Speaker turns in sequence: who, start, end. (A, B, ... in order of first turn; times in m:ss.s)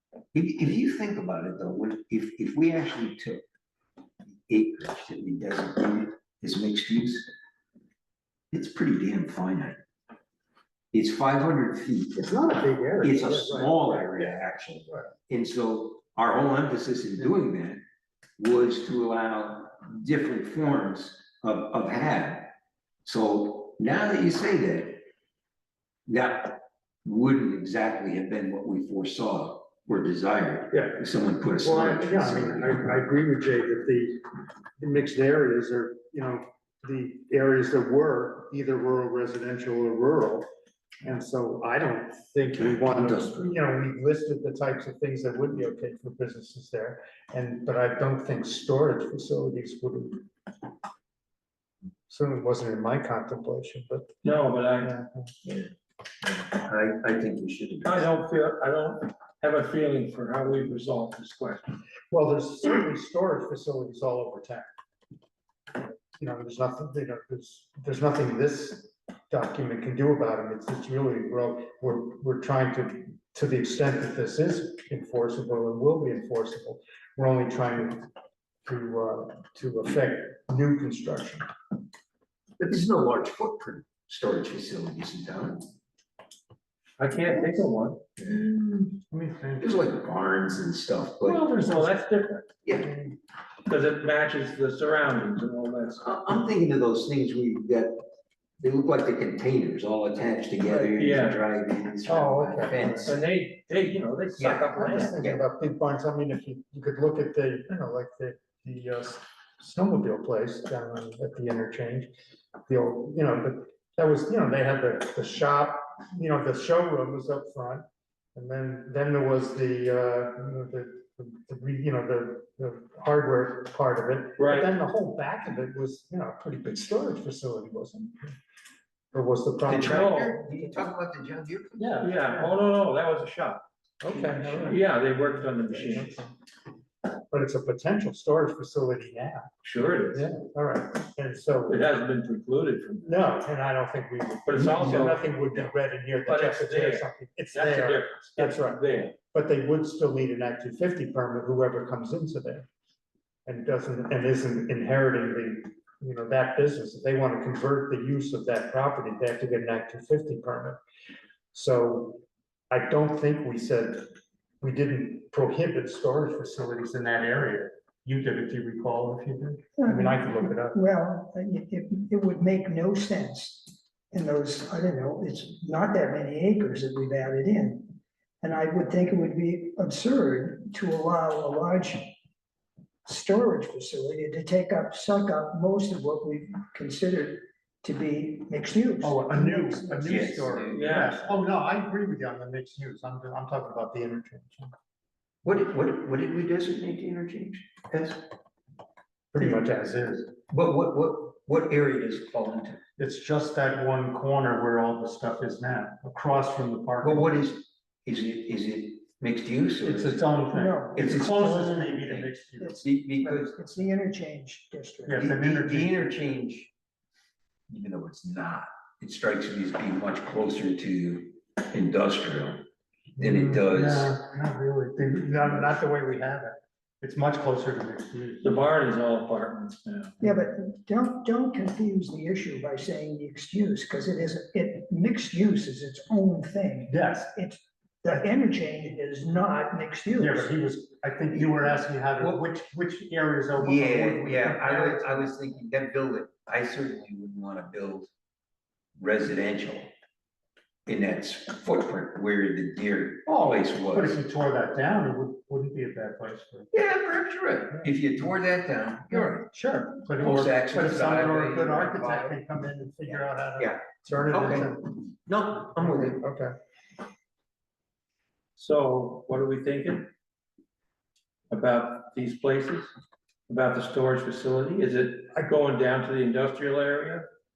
0:00.3-0:03.4 A
0:04.5-0:07.3 A
0:08.5-0:09.8 A
0:10.9-0:12.4 A
0:12.2-0:14.4 B
0:13.0-0:17.8 A
0:14.9-0:15.1 B
0:18.4-0:22.5 A
0:23.0-0:25.0 A
0:26.1-0:32.9 A
0:30.7-0:34.2 B
0:34.8-0:40.4 B
0:41.0-0:50.3 B
0:42.8-0:43.5 A
0:52.1-0:54.2 B
0:54.2-0:54.9 C
0:54.8-0:55.3 B
0:56.3-0:58.0 A
0:57.8-1:01.8 C
1:02.1-1:04.7 B
1:05.8-1:18.0 B
1:18.6-1:21.4 B
1:22.6-1:25.6 A
1:27.0-1:28.0 C
1:28.2-1:28.5 A
1:28.2-1:29.7 B
1:29.6-1:31.4 A
1:31.2-1:32.5 C
1:32.6-1:32.9 A
1:32.8-1:33.2 B
1:33.6-1:36.0 C
1:36.0-1:38.0 A
1:38.6-1:43.2 A
1:40.9-1:41.4 C
1:42.0-1:43.2 B
1:43.0-1:45.1 C
1:44.4-1:45.4 A
1:44.7-1:52.1 B
1:52.7-1:57.8 B
1:58.3-2:08.3 B
2:04.4-2:04.7 C
2:09.1-2:10.1 B
2:09.7-2:12.3 A
2:09.7-2:10.4 C
2:11.9-2:13.6 C
2:14.0-2:16.3 B
2:14.1-2:14.8 A
2:14.4-2:16.2 C
2:17.3-2:19.5 B
2:19.6-2:20.3 C
2:20.1-2:21.8 B
2:21.7-2:23.2 C
2:23.0-2:32.7 B
2:24.5-2:25.3 C
2:26.3-2:29.1 C
2:33.4-2:40.8 B
2:41.5-2:44.1 B
2:44.6-2:50.8 B
2:49.8-3:02.1 D
3:03.0-3:10.3 D
3:09.0-3:14.7 B
3:10.0-3:10.9 A
3:10.7-3:11.3 C
3:15.4-3:18.2 A
3:19.3-3:20.4 B
3:20.5-3:22.8 A
3:23.0-3:27.3 B
3:27.0-3:30.3 A
3:29.8-3:32.8 B
3:30.5-3:32.0 D
3:30.9-3:33.6 A
3:32.6-3:35.4 D
3:35.0-3:36.1 B
3:35.3-3:36.7 A
3:37.7-3:42.6 A
3:43.2-3:44.1 A
3:43.2-3:48.5 B
3:48.4-3:50.1 C
3:50.2-4:00.5 D
3:56.9-3:57.4 B
4:00.2-4:05.3 B
4:03.6-4:08.1 A
4:09.0-4:09.9 A
4:10.8-4:14.2 A
4:13.2-4:16.7 B
4:16.7-4:19.5 A
4:19.1-4:25.0 B
4:20.2-4:22.4 A
4:23.0-4:26.2 A
4:25.8-4:26.5 B
4:28.6-4:30.1 C
4:31.5-4:32.9 C
4:33.5-4:37.3 C